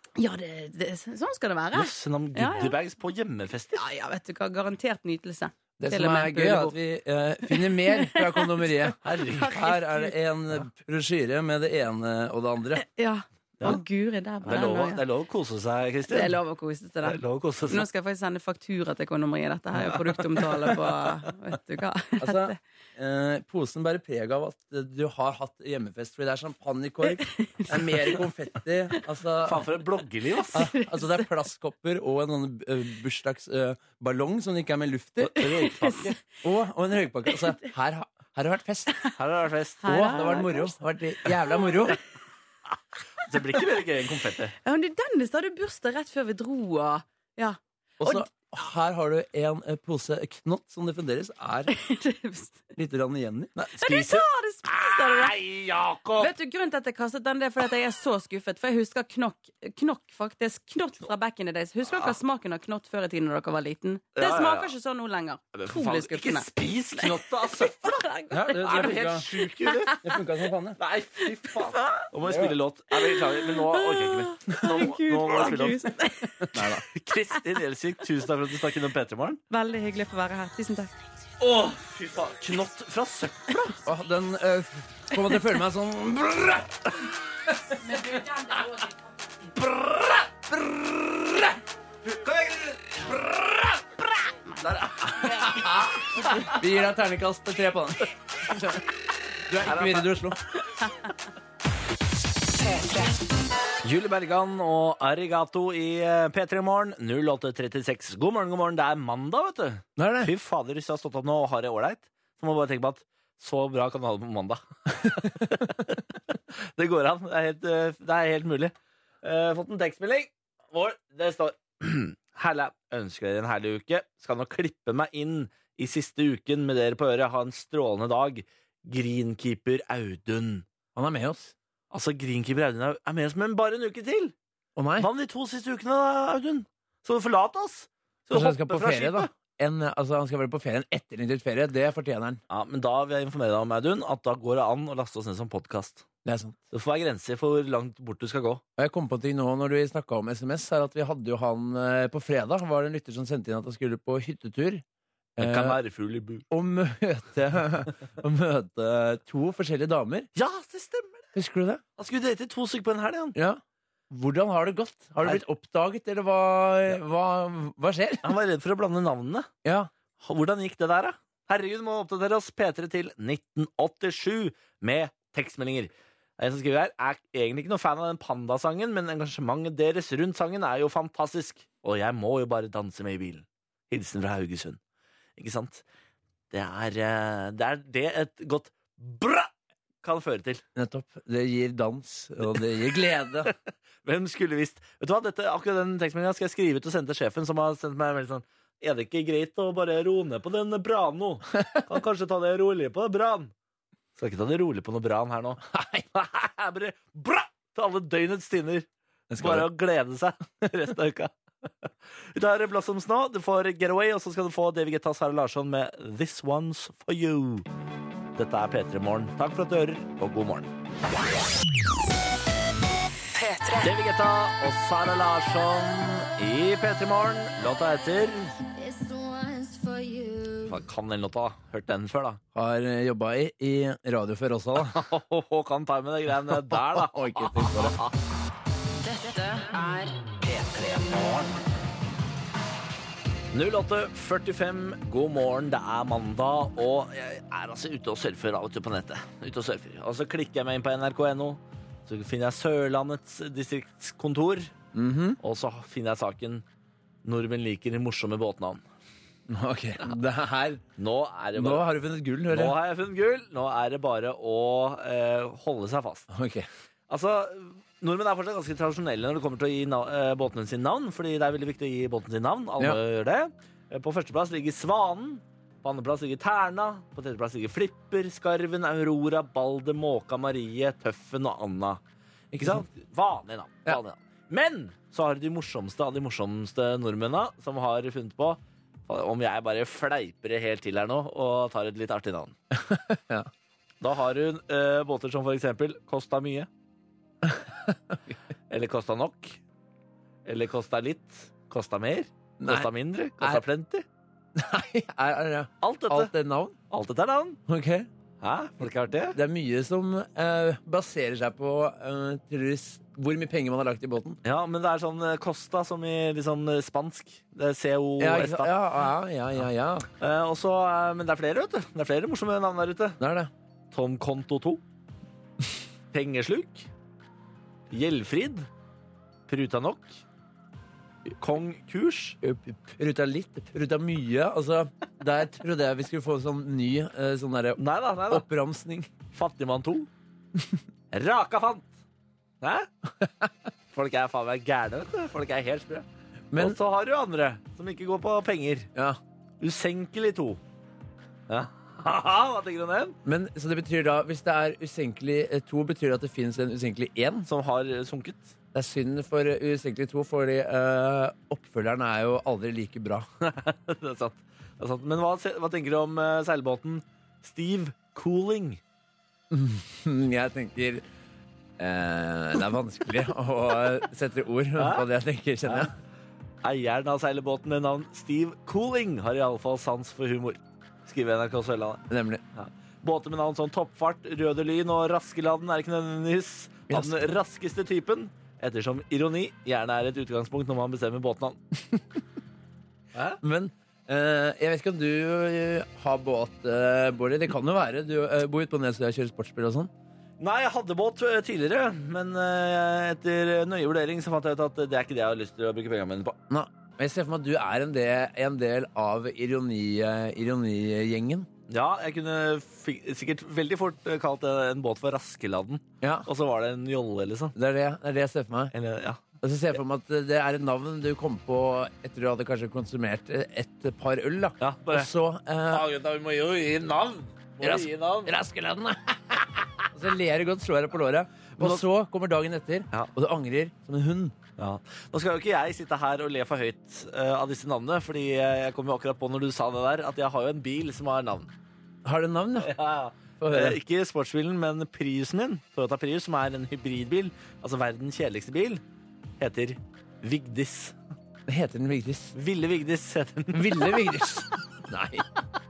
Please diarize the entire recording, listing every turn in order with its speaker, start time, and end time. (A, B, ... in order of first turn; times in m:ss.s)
0:00.2-0:02.8 A
0:01.7-0:03.8 B
0:03.7-0:06.8 A
0:05.8-0:12.8 C
0:07.4-0:10.1 A
0:09.0-0:09.6 B
0:12.8-0:15.0 A
0:14.4-0:16.4 B
0:16.1-0:22.6 A
0:17.0-0:17.9 B
0:19.8-0:20.8 B
0:22.2-0:29.7 C
0:27.1-0:27.8 A
0:29.4-0:30.7 B
0:30.5-0:31.3 A
0:30.5-0:35.4 C
0:35.2-0:36.2 B
0:35.4-0:36.1 A
0:36.4-0:39.1 C
0:37.3-0:37.5 A
0:39.2-0:40.1 B
0:39.8-0:40.7 A
0:39.8-0:42.0 C
0:41.5-0:41.9 A
0:43.2-0:44.5 B
0:44.6-0:48.2 A
0:48.0-0:51.7 C
0:51.7-0:52.7 A
0:52.8-0:53.5 C
0:53.6-0:56.3 B
0:53.8-0:55.4 A
0:56.2-1:10.2 A
1:01.9-1:02.2 B
1:04.1-1:04.7 B
1:05.5-1:10.0 B
1:08.3-1:09.3 C
1:10.0-1:10.8 C
1:10.8-1:15.9 B
1:11.3-1:12.1 A
1:12.2-1:12.6 C
1:12.9-1:16.7 A
1:16.5-1:16.8 C
1:16.9-1:19.4 B
1:19.5-1:20.9 A
1:21.4-1:23.8 B
1:23.8-1:27.0 C
1:27.9-1:28.9 A
1:29.6-1:30.3 B
1:30.5-1:31.4 C
1:32.0-1:33.8 B
1:34.6-1:36.6 B
1:35.3-1:38.8 C
1:39.4-1:40.4 C
1:39.6-1:40.1 B
1:43.8-1:56.0 B
1:50.0-1:50.3 C
1:56.6-2:10.7 B
2:10.9-2:11.5 C
2:11.9-2:14.3 B
2:14.8-2:15.1 C
2:15.0-2:19.3 B
2:18.3-2:22.4 C
2:22.5-2:26.0 B
2:26.2-2:26.6 C
2:26.7-2:28.6 B
2:28.8-2:34.8 C
2:35.4-2:35.8 C
2:35.4-2:36.4 B
2:36.5-2:40.3 C
2:40.3-2:41.3 B
2:41.3-2:41.8 C
2:42.0-2:43.4 B
2:43.3-2:48.3 C
2:48.2-2:49.5 B
2:49.6-2:49.9 C
2:50.2-3:04.8 B
3:05.4-3:05.8 B
3:06.5-3:09.5 B
3:10.0-3:10.6 B
3:10.7-3:13.5 C
3:14.0-3:23.5 B
3:24.2-3:25.6 B
3:25.7-3:26.1 C
3:26.1-3:28.9 B
3:29.3-3:29.7 C
3:29.4-3:37.6 B
3:38.4-3:40.7 B
3:43.3-3:43.9 D
3:43.8-3:48.6 B
3:48.7-3:50.8 E
3:50.6-3:52.4 B
3:52.5-3:55.1 C
3:54.9-3:58.1 B
3:56.5-3:58.0 C
3:59.0-4:01.6 D
4:03.5-4:14.7 B
4:14.9-4:15.4 C
4:15.4-4:16.6 B
4:17.2-4:18.8 B
4:19.5-4:20.8 C
4:21.0-4:21.9 B
4:21.6-4:22.8 C
4:22.5-4:26.3 B
4:26.3-4:26.7 C
4:27.1-4:42.0 B
4:42.5-4:42.8 C
4:42.6-4:52.6 B
4:52.7-4:53.5 C
4:54.0-4:56.7 B
4:57.4-4:58.3 C
4:58.7-4:59.6 B
5:00.4-5:04.0 B
5:02.6-5:03.6 C
5:04.6-5:06.8 C
5:05.8-5:06.3 B
5:06.9-5:07.6 B
5:07.7-5:08.1 C
5:08.4-5:09.4 B
5:09.3-5:14.4 C
5:14.4-5:18.7 B
5:18.2-5:20.1 C
5:20.2-5:23.2 B
5:23.2-5:23.5 C
5:23.9-5:24.8 B
5:26.1-5:26.9 B
5:27.9-5:28.7 B
5:29.5-5:30.2 B
5:31.4-5:32.4 B
5:32.4-5:39.1 C
5:37.8-5:38.4 B
5:39.3-5:40.1 B
5:41.1-5:42.0 B
5:42.6-5:42.9 B
5:43.2-5:43.5 C
5:43.9-5:48.9 B
5:46.5-5:46.8 C
5:48.9-5:49.2 C
5:49.6-5:50.6 B
5:51.5-5:53.2 B
5:53.2-5:57.5 C
5:57.4-5:58.5 B
5:58.7-6:03.3 C
6:03.4-6:08.8 B
6:09.5-6:11.0 C
6:11.8-6:15.9 C
6:14.8-6:15.1 B
6:15.6-6:15.9 B
6:16.6-6:31.6 B
6:22.1-6:22.4 C
6:26.9-6:27.3 C
6:31.9-6:32.2 C
6:33.1-6:33.4 B
6:33.4-6:39.9 C
6:40.4-6:46.4 B
6:46.5-6:51.5 C
6:51.7-6:57.6 B
6:56.0-6:56.3 C
6:57.6-6:58.7 C
6:58.7-6:59.2 B
6:59.4-7:05.9 C
7:04.6-7:05.1 B
7:05.7-7:08.3 B
7:07.6-7:14.3 C
7:11.6-7:11.8 B
7:14.6-7:21.5 B
7:22.0-7:22.8 C
7:22.6-7:28.8 B
7:23.4-7:23.8 C
7:29.4-7:31.0 B
7:31.5-7:32.3 C
7:32.3-7:34.0 B
7:33.5-7:35.2 C